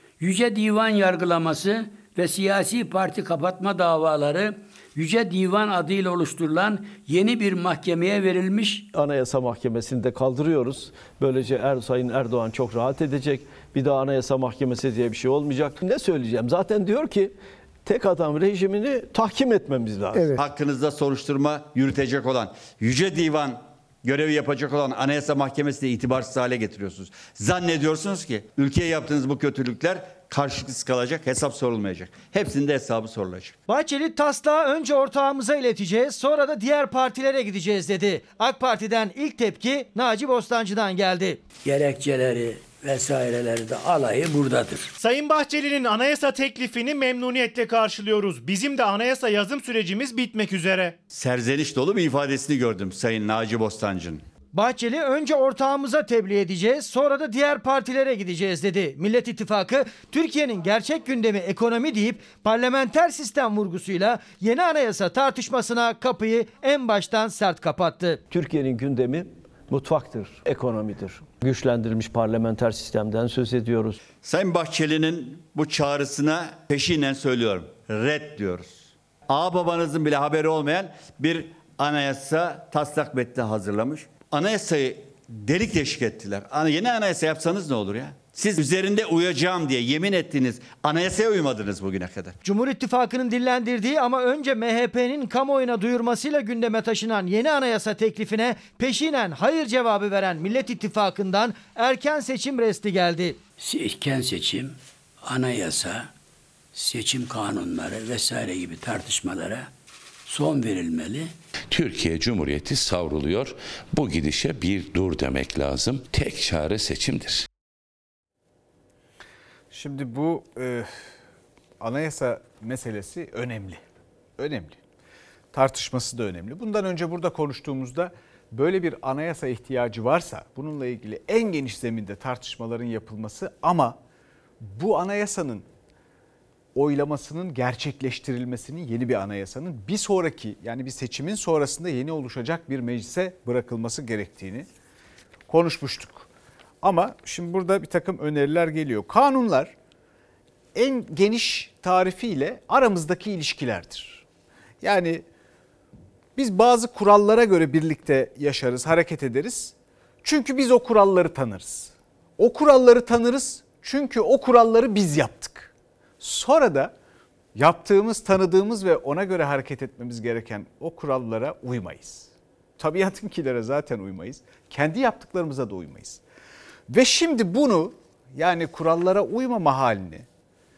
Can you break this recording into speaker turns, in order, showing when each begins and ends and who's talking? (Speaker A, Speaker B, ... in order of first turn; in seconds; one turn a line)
Speaker A: 0.2-8.9
Speaker B: 8.9-20.4
Speaker C: 20.3-33.6
Speaker D: 33.7-41.4
Speaker A: 41.6-44.9
Speaker E: 45.0-51.0
Speaker C: 51.1-54.2
Speaker D: 54.5-68.2
Speaker B: 68.3-74.0
Speaker C: 74.2-92.4
Speaker D: 92.4-103.4
Speaker A: 103.6-106.1
Speaker A: 106.7-109.7
Speaker A: 110.3-111.3
Speaker F: 111.7-117.5
Speaker G: 119.7-121.1
Speaker G: 121.8-123.8
Speaker G: 124.4-124.8
Speaker G: 125.5-134.0
Speaker G: 134.6-135.7
Speaker G: 136.7-144.7
Speaker G: 145.5-146.3
Speaker G: 146.8-149.7
Speaker G: 150.7-154.2
Speaker G: 154.8-155.2
Speaker G: 156.4-166.9
Speaker G: 167.5-176.2
Speaker G: 176.9-180.3